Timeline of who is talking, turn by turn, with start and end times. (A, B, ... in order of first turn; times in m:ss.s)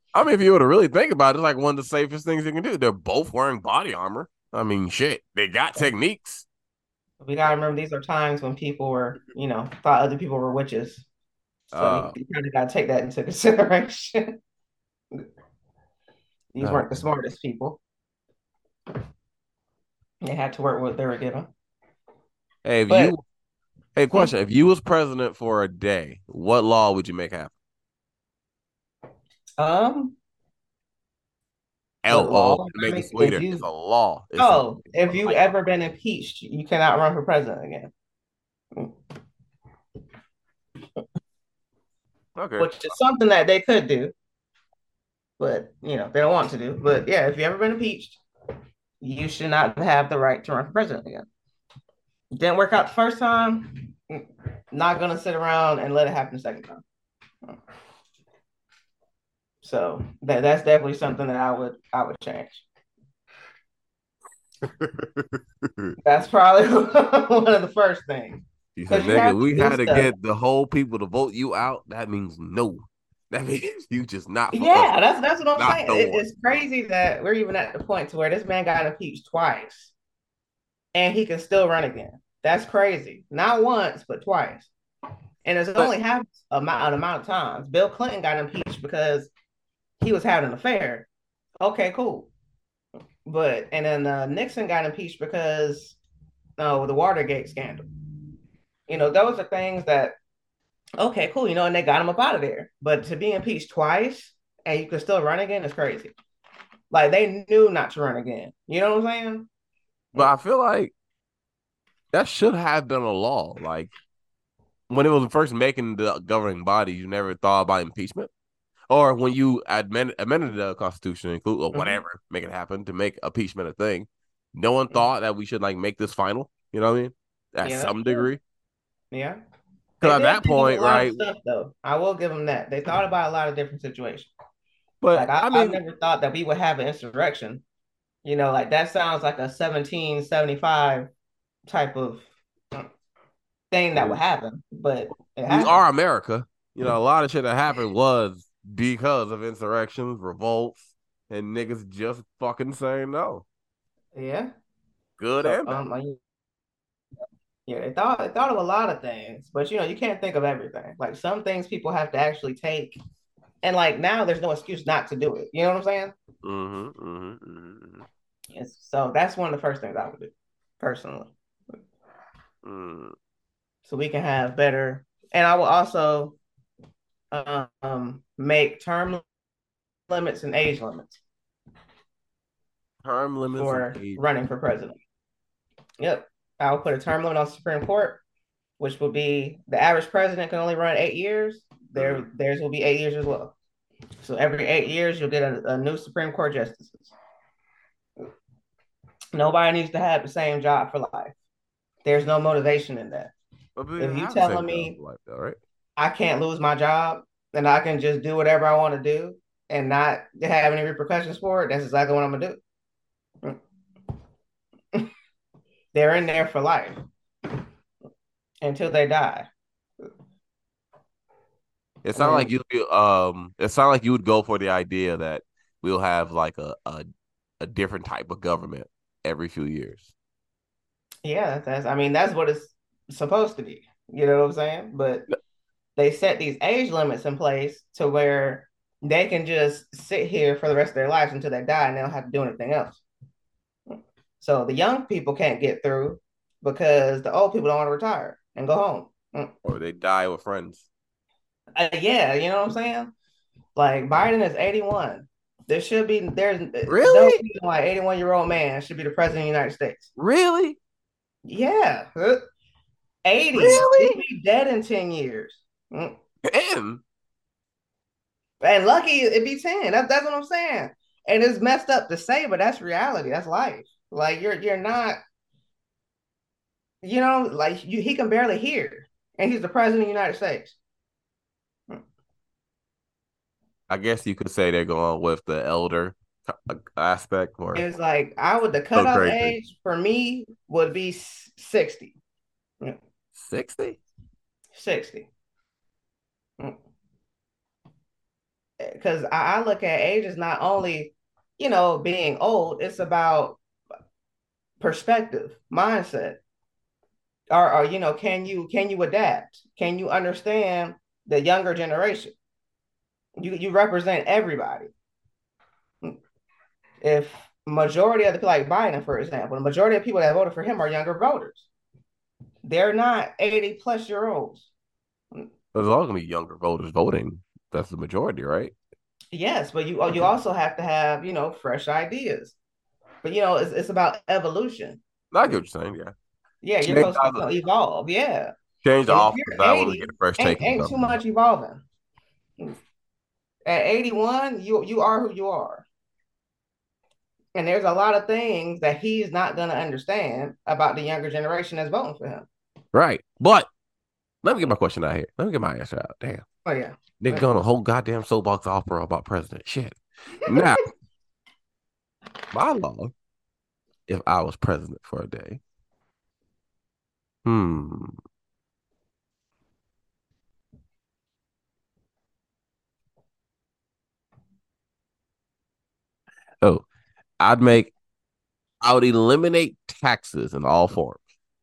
0:00.1-0:06.5 A
0:07.2-0:11.1 B
0:11.7-0:14.4 B
0:11.7-0:12.2 A
0:16.5-0:17.8 B
0:16.6-0:17.0 A
0:20.2-0:21.5 B
0:22.6-0:23.2 A
0:22.9-0:23.2 B
0:24.0-0:27.5 A
0:29.6-0:30.2 B
0:32.0-0:35.5 A
0:32.1-0:33.6 B
0:34.4-0:37.9 B
0:42.4-0:42.7 A
0:42.6-0:44.1 B
0:45.4-0:48.2 B
0:49.0-0:51.3 B
0:52.3-0:56.8 B
0:59.6-1:02.6 B
1:04.6-1:06.0 A
1:06.0-1:10.1 B
1:08.8-1:14.9 A
1:14.5-1:19.9 B
1:15.6-1:16.2 A
1:20.9-1:24.7 B
1:25.4-1:29.3 B
1:30.0-1:31.1 B
1:31.6-1:32.3 B
1:33.3-1:36.0 B
1:36.6-1:37.9 B
1:38.9-1:40.2 B
1:41.0-1:46.1 B
1:46.9-1:49.5 B
1:50.2-1:50.9 A
1:52.1-1:53.9 A
1:54.9-1:58.3 A
1:58.9-2:08.4 A
2:01.7-2:02.0 B
2:07.6-2:08.3 B
2:09.1-2:09.4 B
2:10.0-2:11.2 A
2:10.0-2:14.3 B
2:15.0-2:15.8 A
2:15.1-2:17.6 B
2:18.2-2:21.1 B
2:21.7-2:22.9 B
2:23.7-2:25.8 B
2:23.9-2:24.2 A
2:25.5-2:33.4 A
2:34.2-2:34.5 B
2:35.2-2:35.8 A
2:35.4-2:36.2 B
2:37.7-2:43.0 B
2:43.6-2:46.2 B
2:46.4-2:48.1 A
2:48.6-2:51.8 B
2:52.6-2:53.2 A
2:53.8-2:56.4 B
2:57.3-2:59.2 B
3:00.1-3:01.2 B
3:03.0-3:04.2 A
3:03.6-3:05.0 B
3:06.0-3:08.2 B
3:08.8-3:13.6 B
3:12.0-3:12.3 A
3:14.2-3:17.1 B
3:19.3-3:21.3 B
3:22.0-3:23.3 B
3:23.8-3:25.6 A
3:24.0-3:25.0 B
3:26.0-3:32.6 B
3:35.9-3:37.0 B
3:38.6-3:39.5 B
3:42.0-3:47.1 A
3:42.2-3:42.5 B
3:47.6-3:50.1 A
3:51.2-3:55.3 B
3:56.0-4:03.0 B
4:03.9-4:09.5 B
4:09.6-4:10.9 A
4:11.8-4:13.1 B
4:13.8-4:20.1 B
4:16.9-4:17.4 A
4:20.2-4:20.8 A
4:21.4-4:22.4 B
4:23.2-4:26.2 B
4:23.6-4:24.2 A
4:26.4-4:27.0 A
4:28.6-4:35.2 B
4:37.0-4:40.8 B
4:43.9-4:47.8 A
4:47.8-4:52.2 B
4:49.0-4:49.6 A
4:53.4-4:54.0 A
4:54.7-4:55.3 B
4:58.8-5:03.6 B
5:04.8-5:06.4 B
5:07.5-5:12.3 B
5:13.4-5:14.9 B
5:17.0-5:21.7 B
5:22.6-5:24.7 B
5:25.7-5:28.7 A
5:29.3-5:32.6 B
5:33.2-5:35.0 B
5:35.3-5:36.1 A
5:36.6-5:38.5 B
5:36.8-5:37.4 A
5:38.8-5:40.9 A
5:39.1-5:41.8 B
5:43.7-5:45.8 B
5:47.6-5:52.5 B
5:52.9-5:53.7 A
5:54.4-5:56.4 A
5:56.6-5:57.5 B
5:57.2-6:00.8 A
6:00.5-6:00.7 B
6:02.5-6:03.1 A
6:04.1-6:05.6 A
6:07.4-6:08.2 A
6:17.4-6:17.9 A
6:18.8-6:21.2 A